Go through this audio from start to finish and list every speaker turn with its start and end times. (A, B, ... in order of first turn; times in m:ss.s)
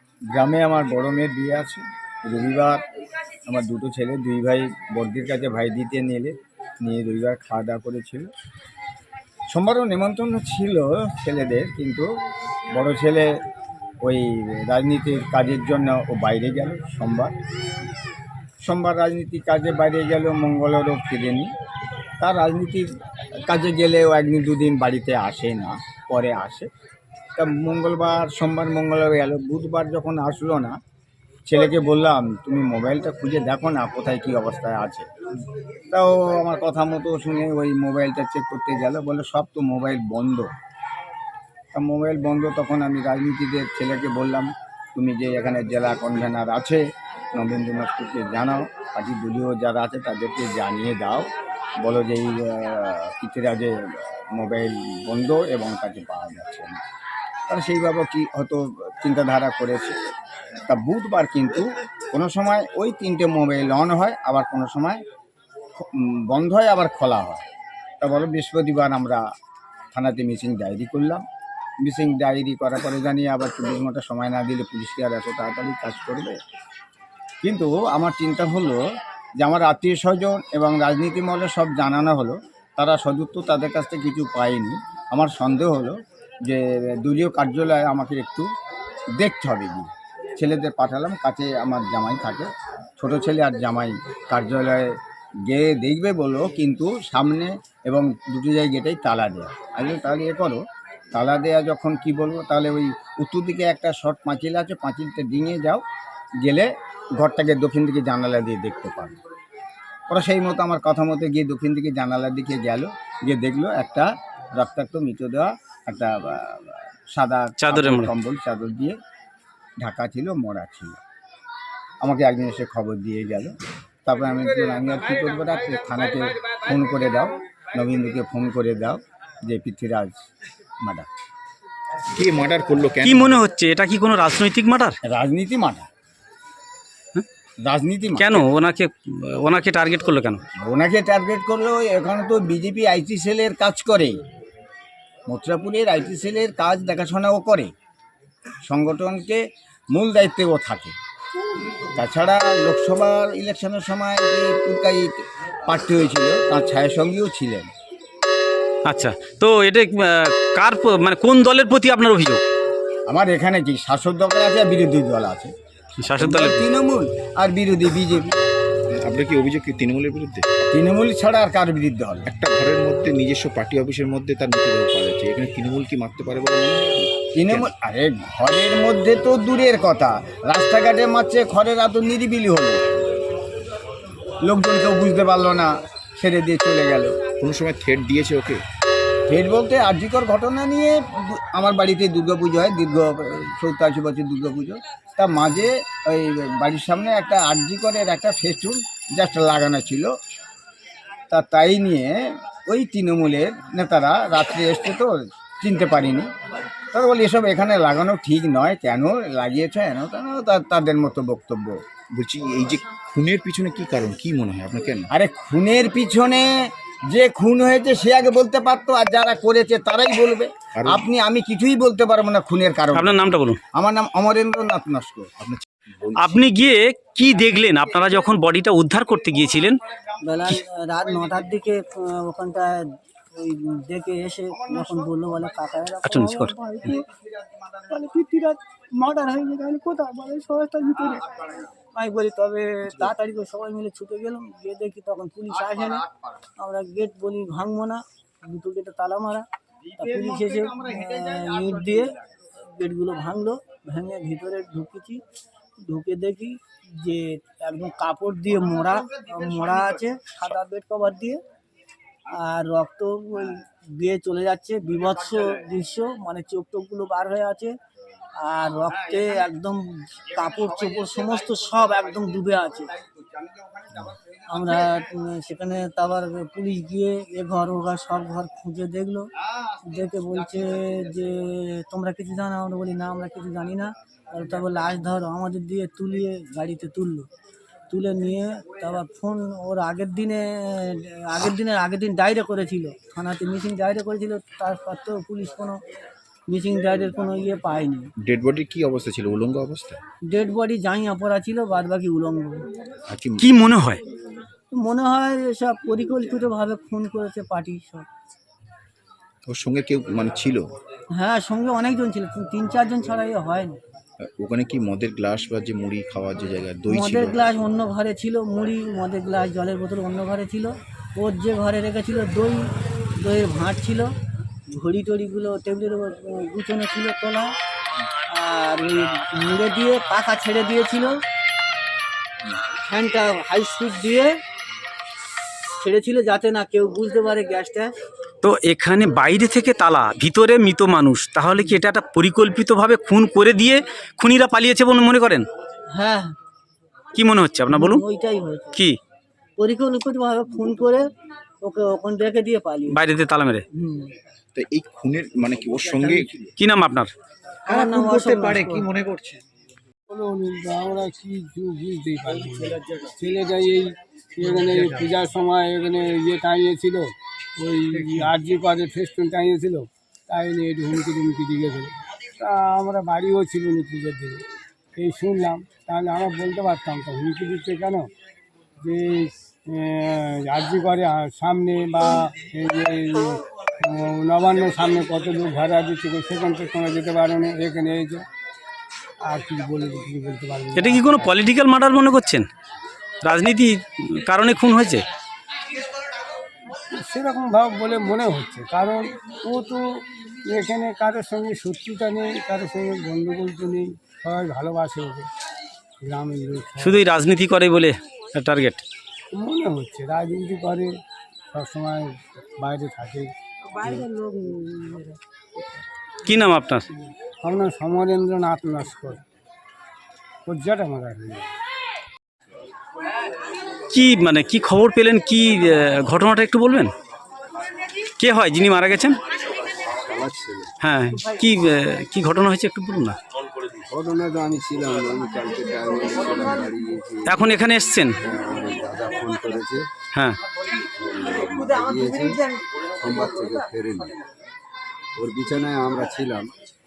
0:00.3-0:02.8 A
0:03.5-0:08.3 A
0:09.5-0:12.1 A
0:12.8-0:13.3 A
0:14.0-0:17.3 A
0:18.6-0:21.5 A
0:22.2-0:22.9 A
0:23.5-0:26.7 A
0:27.4-0:30.8 A
0:31.5-0:35.1 A
0:35.9-0:40.5 A
0:41.7-0:46.8 A
0:47.3-0:51.3 A
0:51.8-0:56.8 A
0:57.5-1:00.0 A
1:00.7-1:05.0 A
1:05.8-1:07.4 A
1:08.0-1:09.2 A
1:09.9-1:11.2 A
1:11.8-1:16.4 A
1:17.4-1:18.8 A
1:19.4-1:28.5 A
1:29.2-1:34.9 A
1:35.5-1:40.6 A
1:41.1-1:45.8 A
1:46.4-1:49.2 A
1:50.1-1:59.0 A
1:57.6-1:58.1 B
1:59.8-2:01.0 A
2:02.0-2:03.5 A
2:04.0-2:10.2 A
2:12.1-2:13.4 C
2:13.0-2:15.0 B
2:15.0-2:15.9 A
2:17.7-2:18.4 A
2:18.2-2:20.4 B
2:20.6-2:24.2 A
2:25.3-2:27.7 A
2:28.6-2:31.0 A
2:32.0-2:37.7 A
2:38.9-2:42.4 B
2:43.1-2:48.4 A
2:46.0-2:46.6 B
2:49.0-2:50.5 C
2:50.7-2:52.3 A
2:52.3-2:57.7 C
2:57.4-3:02.8 A
3:04.4-3:07.1 A
3:07.4-3:08.6 C
3:09.3-3:20.1 A
3:21.3-3:26.3 A
3:26.9-3:31.8 A
3:32.1-3:35.1 C
3:35.1-3:45.3 A
3:40.8-3:41.0 C
3:42.9-3:43.6 B
3:45.4-3:46.4 C
3:46.2-3:49.8 B
3:50.2-3:57.1 D
3:56.1-3:56.5 B
3:57.8-4:06.1 D
4:06.6-4:15.2 D
4:15.8-4:21.4 D
4:22.3-4:27.7 D
4:28.4-4:32.9 D
4:34.5-4:39.3 D
4:39.8-4:47.3 D
4:47.9-4:55.8 D
4:56.5-4:58.1 D
4:58.2-5:00.0 C
5:00.3-5:02.7 D
5:03.1-5:03.5 C
5:03.4-5:04.0 B
5:04.7-5:08.1 D
5:09.4-5:10.7 C
5:11.1-5:13.8 D
5:14.4-5:17.5 C
5:16.9-5:22.7 D
5:23.2-5:24.1 D
5:24.7-5:27.5 D
5:28.3-5:31.2 D
5:32.7-5:34.4 D
5:35.8-5:37.9 D
5:38.4-5:45.5 B
5:45.9-5:46.4 D
5:47.2-5:48.0 B
5:47.7-5:48.8 D
5:49.6-5:51.1 D
5:51.6-5:53.0 D
5:52.9-5:53.6 B
5:53.7-5:54.1 D
5:54.5-5:56.5 C
5:56.6-5:57.1 B
5:57.7-5:58.9 D
6:00.1-6:14.4 E
6:15.0-6:18.1 E
6:18.8-6:28.2 E
6:29.3-6:31.3 E
6:30.8-6:32.5 B
6:33.2-6:35.0 B
6:36.9-6:45.3 E
6:46.0-6:47.0 E
6:46.8-6:48.8 B
6:49.3-6:50.9 E
6:51.5-6:53.3 E
6:53.7-6:55.6 D
6:56.3-6:56.9 B
6:57.4-6:59.2 E
7:00.5-7:01.5 E
7:03.9-7:06.9 B
7:08.2-7:09.2 B
7:09.8-7:10.7 F
7:10.8-7:13.2 B
7:11.1-7:11.4 D
7:13.9-7:17.5 F
7:17.3-7:18.2 B
7:18.2-7:19.9 F
7:20.1-7:20.4 B
7:21.0-7:22.4 F
7:23.0-7:24.2 F
7:25.2-7:26.5 F